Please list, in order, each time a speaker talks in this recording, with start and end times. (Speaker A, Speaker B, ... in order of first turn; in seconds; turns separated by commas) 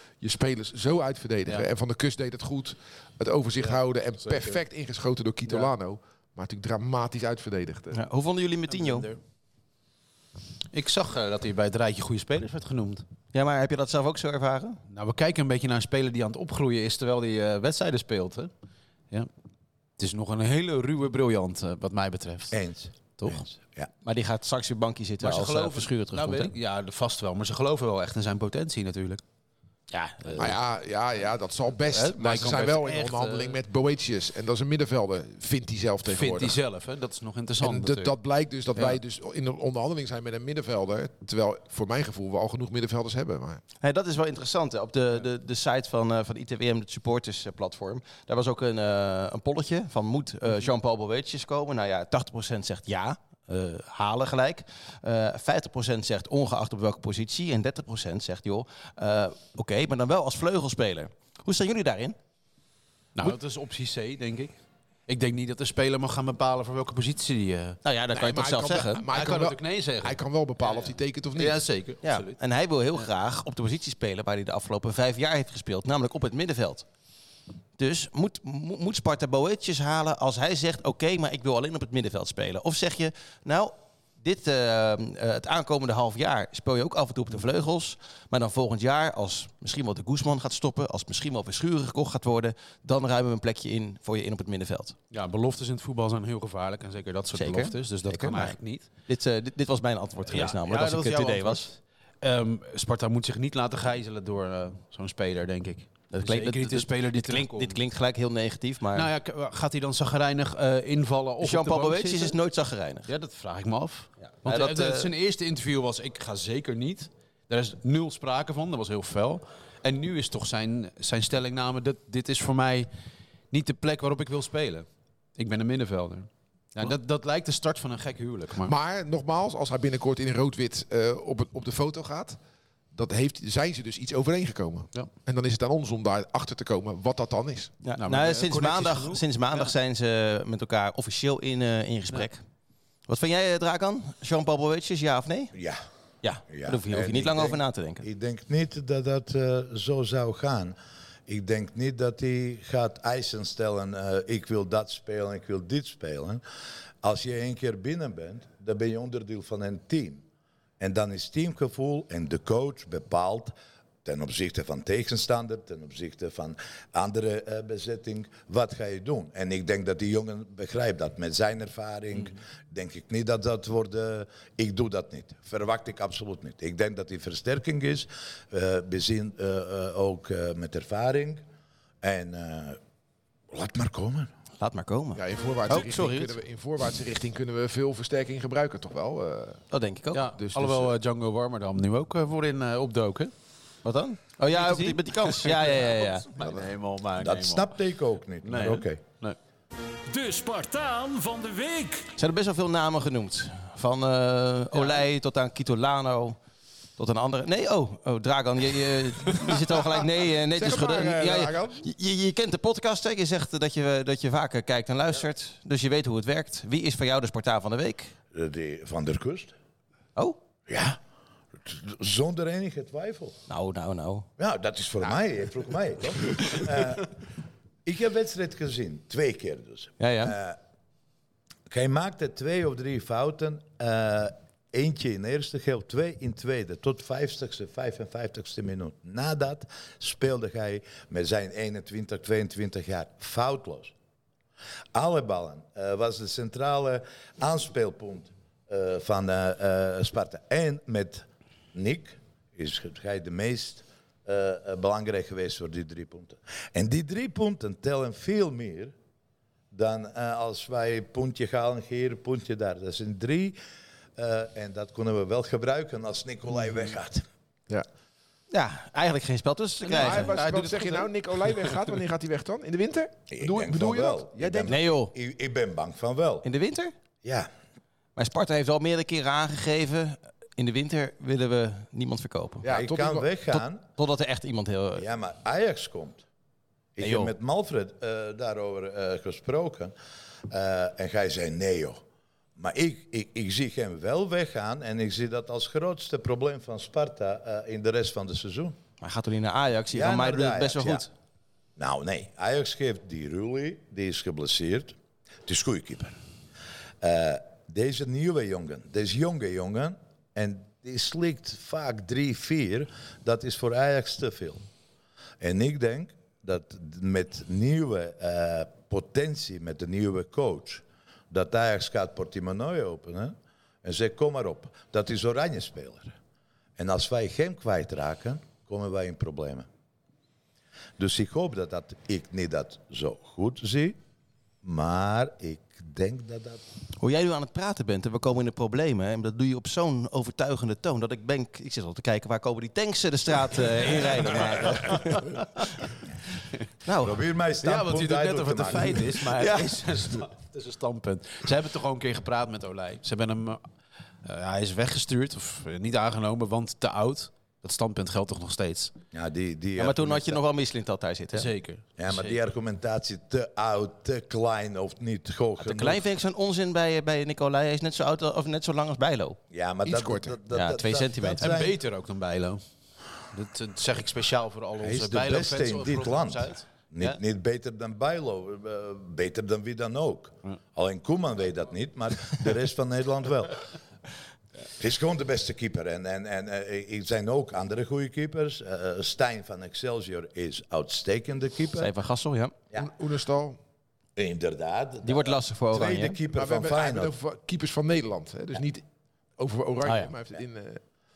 Speaker A: 0.2-8.0, Speaker B: 3.6-4.6, Speaker B: 5.4-5.7, Speaker C: 7.9-9.1, Speaker B: 8.7-9.2, Speaker B: 10.7-13.0, Speaker C: 13.3-14.8, Speaker B: 14.9-18.5, Speaker B: 20.0-22.6, Speaker D: 22.5-23.9, Speaker B: 23.2-23.4, Speaker C: 24.0-26.5, Speaker B: 25.2-29.2, Speaker C: 29.9-30.6, Speaker B: 30.2-30.6, Speaker A: 30.4-36.6, Speaker B: 31.9-33.6, Speaker B: 36.0-38.1, Speaker A: 37.6-43.6, Speaker B: 38.7-39.0, Speaker C: 43.8-62.2, Speaker B: 63.1-64.5, Speaker B: 65.1-67.8, Speaker C: 67.8-69.0, Speaker A: 68.1-71.6, Speaker B: 69.1-72.4, Speaker C: 72.0-76.8, Speaker C: 77.8-95.0, Speaker B: 95.1-98.8, Speaker C: 97.3-101.7, Speaker B: 100.3-107.8, Speaker C: 106.1-109.1, Speaker B: 108.9-112.3, Speaker C: 111.4-113.1, Speaker B: 113.1-122.9, Speaker C: 114.4-115.1, Speaker B: 123.5-128.7, Speaker A: 128.6-132.4, Speaker A: 132.9-137.7, Speaker C: 137.8-142.4, Speaker B: 138.0-139.7, Speaker C: 143.1-145.5, Speaker D: 145.5-145.8, Speaker C: 146.2-148.1, Speaker D: 146.5-150.8, Speaker D: 151.3-156.4, Speaker D: 157.0-160.2, Speaker D: 160.8-163.5, Speaker D: 164.0-181.4, Speaker D: 182.0-182.8, Speaker D: 183.5-184.3, Speaker C: 184.6-186.3, Speaker A: 185.2-189.6, Speaker C: 189.7-190.3, Speaker B: 190.1-193.3, Speaker A: 190.4-190.9, Speaker C: 193.8-196.2, Speaker B: 194.5-197.7, Speaker D: 197.2-199.0, Speaker B: 198.4-199.4, Speaker E: 200.1-202.1, Speaker C: 202.2-206.4, Speaker C: 207.0-218.1, Speaker A: 210.5-211.8, Speaker D: 218.3-219.5, Speaker D: 220.7-221.0, Speaker D: 221.6-223.3, Speaker C: 223.5-224.3, Speaker D: 224.4-227.1, Speaker D: 227.8-230.6, Speaker C: 230.0-230.3, Speaker D: 231.7-243.9, Speaker D: 244.9-258.9, Speaker D: 259.7-263.6, Speaker D: 264.1-267.2, Speaker C: 268.5-270.4, Speaker B: 269.8-271.8, Speaker A: 269.9-274.8, Speaker D: 273.3-276.4, Speaker C: 274.7-275.1, Speaker C: 276.4-276.9, Speaker D: 277.2-277.5, Speaker C: 278.1-282.6, Speaker A: 282.6-283.3, Speaker D: 282.6-283.8, Speaker C: 283.5-285.0, Speaker D: 284.9-286.2, Speaker D: 286.9-289.9, Speaker C: 287.0-287.3, Speaker D: 290.5-292.0, Speaker D: 292.6-298.8, Speaker C: 299.0-301.1, Speaker D: 299.9-301.1, Speaker D: 301.8-306.2, Speaker D: 307.0-314.6, Speaker D: 315.4-326.1, Speaker D: 326.8-329.7, Speaker D: 331.0-334.0, Speaker D: 334.6-336.6, Speaker C: 337.0-345.4, Speaker C: 346.8-347.2, Speaker D: 347.0-349.2, Speaker B: 347.6-353.6, Speaker C: 349.4-349.9, Speaker B: 354.2-358.9, Speaker D: 359.1-360.4, Speaker C: 359.8-361.5, Speaker B: 361.3-362.4, Speaker D: 362.0-366.0, Speaker C: 365.6-369.4, Speaker D: 369.5-371.7, Speaker A: 369.8-370.3, Speaker C: 370.5-371.5, Speaker B: 371.4-372.6, Speaker B: 373.3-377.1, Speaker D: 374.8-383.6, Speaker D: 384.8-391.9, Speaker C: 391.8-392.5, Speaker A: 392.7-393.6, Speaker D: 394.1-397.1, Speaker C: 395.0-396.2, Speaker A: 396.3-398.8, Speaker A: 399.4-400.8, Speaker C: 399.8-400.1